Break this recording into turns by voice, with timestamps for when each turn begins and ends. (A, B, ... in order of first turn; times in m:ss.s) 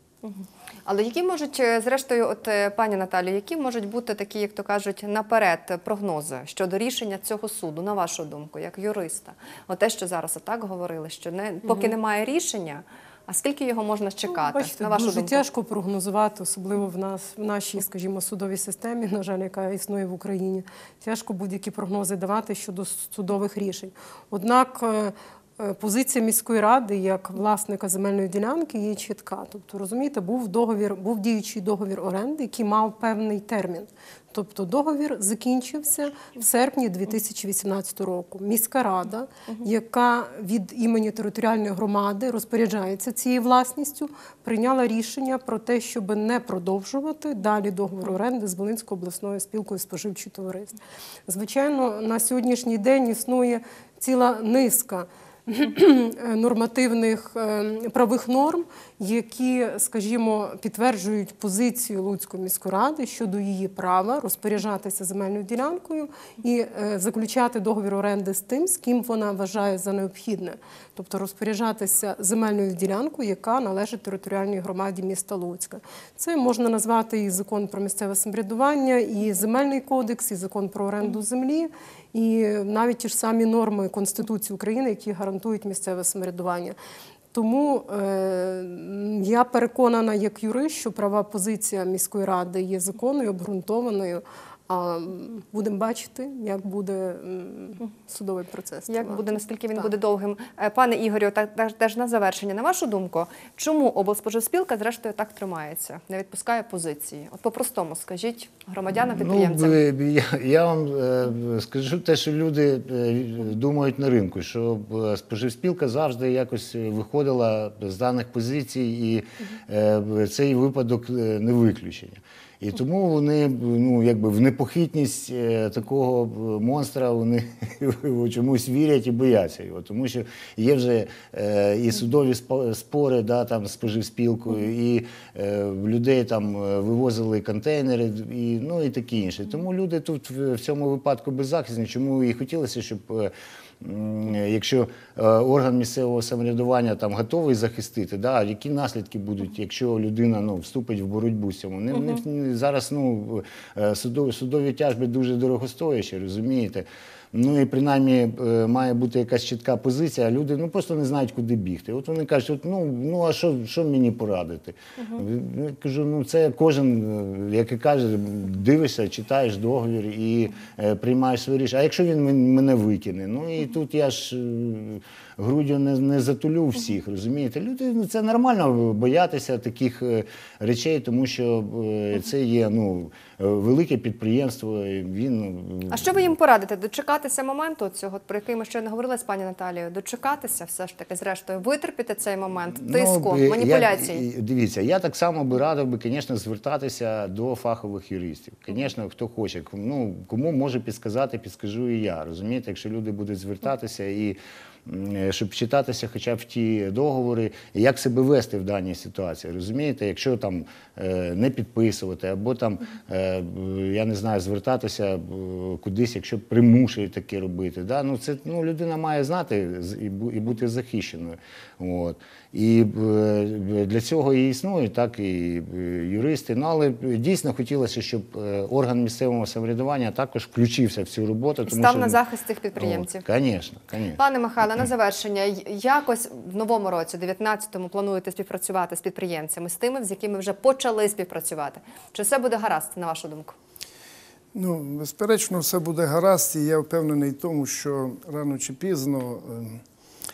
0:00.2-0:15.4 A
0:14.4-1:26.8 B
1:27.3-1:39.2 B
1:38.9-1:49.8 A
1:49.0-3:06.3 C
3:05.9-3:14.2 A
3:12.8-3:52.2 C
3:51.7-3:53.2 A
3:52.8-3:54.2 C
3:54.2-4:03.6 A
4:04.5-4:09.8 D